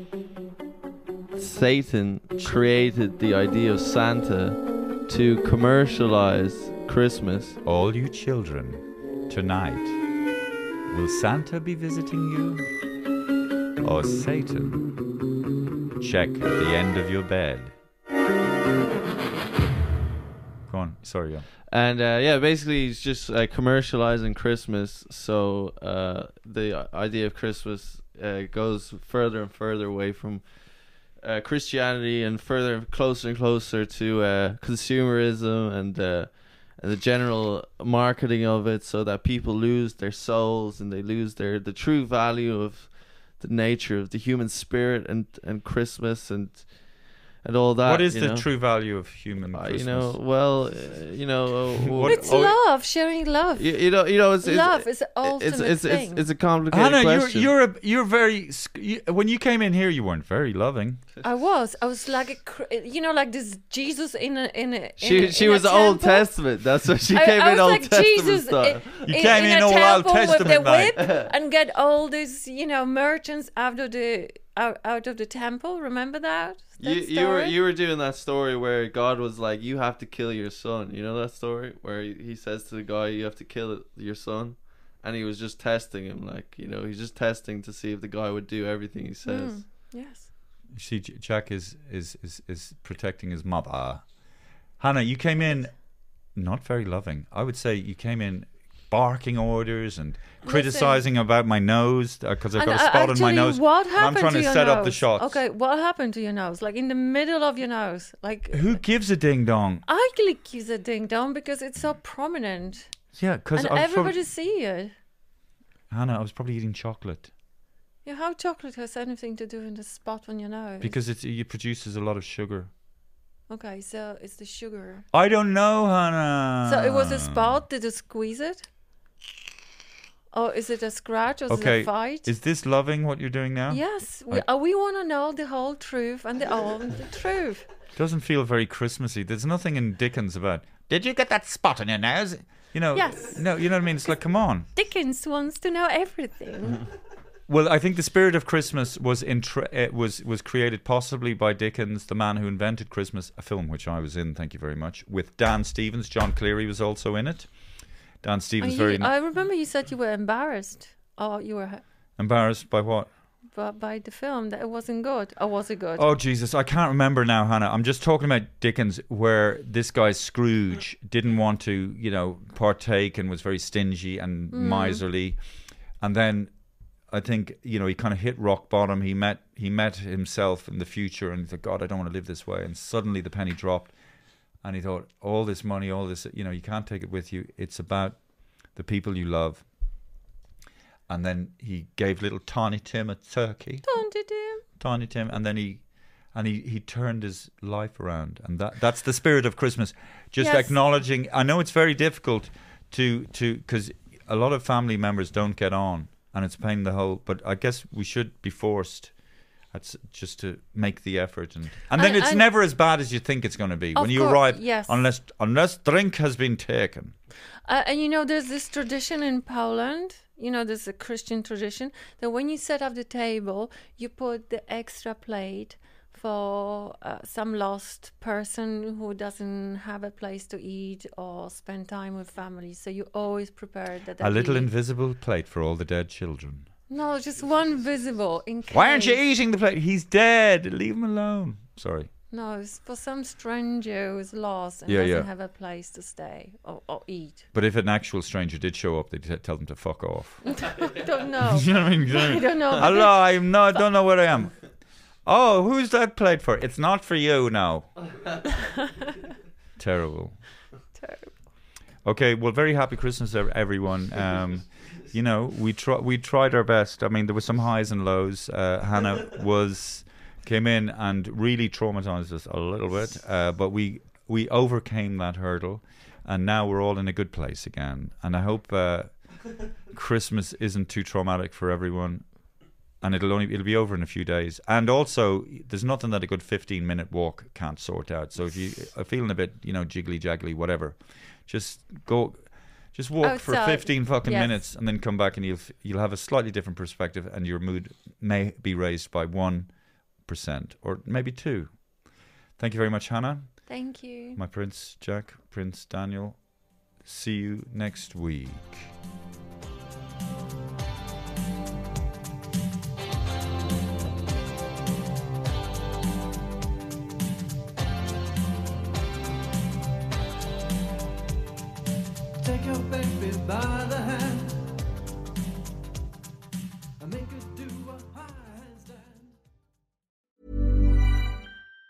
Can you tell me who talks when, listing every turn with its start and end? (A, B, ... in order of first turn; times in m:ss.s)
0:01.4-0:07.6 A
0:07.6-0:10.0 B
0:10.9-0:12.7 B
0:13.8-0:14.8 B
0:16.0-0:17.8 B
0:20.7-0:21.5 B
0:21.7-0:48.5 A
0:47.8-0:50.2 B
0:49.5-0:52.5 A
0:51.9-0:52.6 B
0:52.1-0:56.2 C
0:53.6-0:57.5 A
0:56.7-1:01.0 B
1:01.2-1:06.3 C
1:05.0-1:08.9 A
1:07.1-1:17.6 C
1:09.0-1:11.0 B
1:11.0-1:11.3 A
1:16.8-1:29.6 A
1:29.2-1:30.3 C
1:30.7-1:34.1 B
1:34.8-1:35.8 B
1:36.3-1:45.4 B
1:40.4-1:41.0 C
1:42.6-1:48.8 C
1:48.5-1:49.8 B
1:49.8-1:52.9 C
1:53.1-1:54.2 B
1:53.5-1:54.9 C
1:55.9-1:57.3 B
1:58.0-2:01.0 C
2:00.8-2:02.7 B
2:03.5-2:05.1 C
2:05.1-2:07.6 B
2:06.6-2:08.7 C
2:10.3-2:12.3 C
2:11.5-2:14.4 B
2:13.7-2:17.7 C
2:18.0-2:24.7 B
2:22.9-2:23.5 C
2:24.7-2:26.8 C
2:27.5-2:37.5 B
2:38.2-2:39.1 B
2:38.6-2:41.8 C
2:42.2-2:43.1 B
2:43.5-2:46.1 C
2:46.0-2:55.4 B
2:54.5-2:55.0 C
2:56.0-2:56.5 B
2:57.1-3:03.9 B
3:04.6-3:08.2 B
3:08.7-3:09.6 B
3:11.1-3:13.9 B
3:13.8-3:14.6 C
3:14.8-3:29.1 B
3:20.4-3:20.8 C
3:29.7-3:37.2 B
3:31.9-3:32.5 C
3:34.0-3:35.0 C
3:37.6-3:54.7 C
3:54.2-3:56.7 B
3:56.9-3:59.2 C
3:58.7-4:02.1 B
4:02.3-4:07.5 C
4:04.9-4:05.3 B
4:07.5-4:10.9 B
4:10.5-4:13.8 C
4:11.4-4:14.6 B
4:15.2-4:17.9 B
4:19.8-4:20.4 B
4:21.0-4:21.4 C
4:22.0-4:39.3 B
4:39.9-4:42.3 B
4:43.0-4:59.7 B
4:53.2-4:54.6 C
5:00.2-5:01.8 B
5:02.6-5:03.8 B
5:03.7-5:04.4 C
5:04.4-5:06.4 B
5:07.0-5:08.9 B
5:22.4-5:24.8 D
5:27.0-5:29.4 D